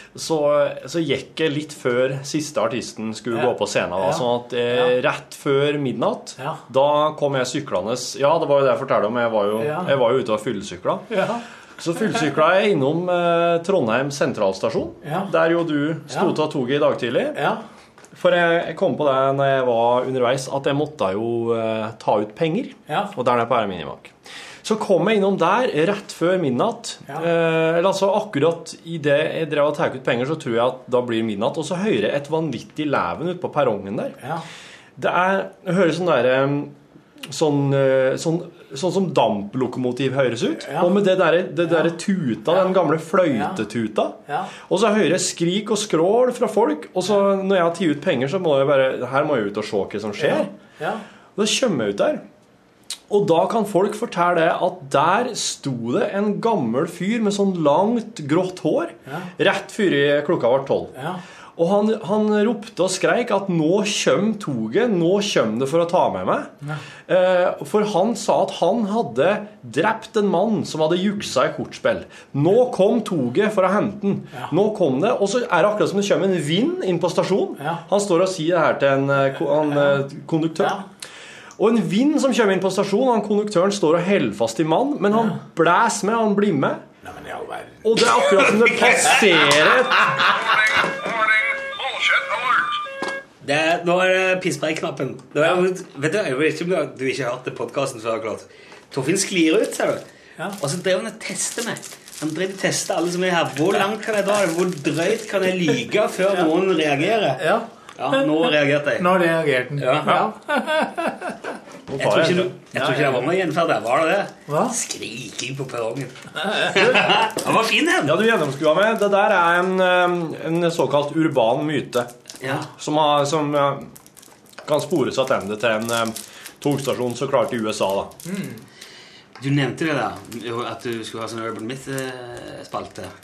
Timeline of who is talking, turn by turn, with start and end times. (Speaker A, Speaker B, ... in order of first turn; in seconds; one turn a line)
Speaker A: 0.1-11.1
Speaker B: 3.3-4.9
Speaker B: 9.6-9.9
Speaker B: 11.1-11.4
Speaker A: 11.8-17.4
Speaker B: 15.0-15.3
Speaker B: 16.1-16.4
Speaker B: 17.3-17.6
Speaker A: 18.1-34.2
Speaker B: 22.9-23.1
Speaker B: 34.2-34.5
Speaker A: 35.0-50.5
Speaker B: 40.6-41.0
Speaker B: 41.6-41.9
Speaker B: 43.3-43.6
Speaker B: 44.3-44.5
Speaker B: 50.2-51.0
Speaker A: 51.4-52.2
Speaker A: 53.1-61.0
Speaker B: 61.0-61.2
Speaker A: 61.6-66.5
Speaker A: 67.1-80.8
Speaker B: 77.6-77.8
Speaker B: 79.7-80.0
Speaker B: 80.6-80.8
Speaker A: 81.6-86.8
Speaker B: 87.0-87.9
Speaker A: 87.8-90.3
Speaker C: 88.7-89.2
Speaker C: 93.4-100.0
Speaker C: 100.6-109.2
Speaker B: 107.4-111.5
Speaker C: 109.8-110.2
Speaker A: 111.9-112.5
Speaker C: 112.0-118.2
Speaker B: 112.7-113.2
Speaker B: 114.5-114.8
Speaker B: 116.4-116.7
Speaker A: 116.7-117.2
Speaker A: 118.0-123.9
Speaker C: 122.4-122.7
Speaker A: 124.6-128.1
Speaker B: 128.3-128.6
Speaker C: 129.4-133.1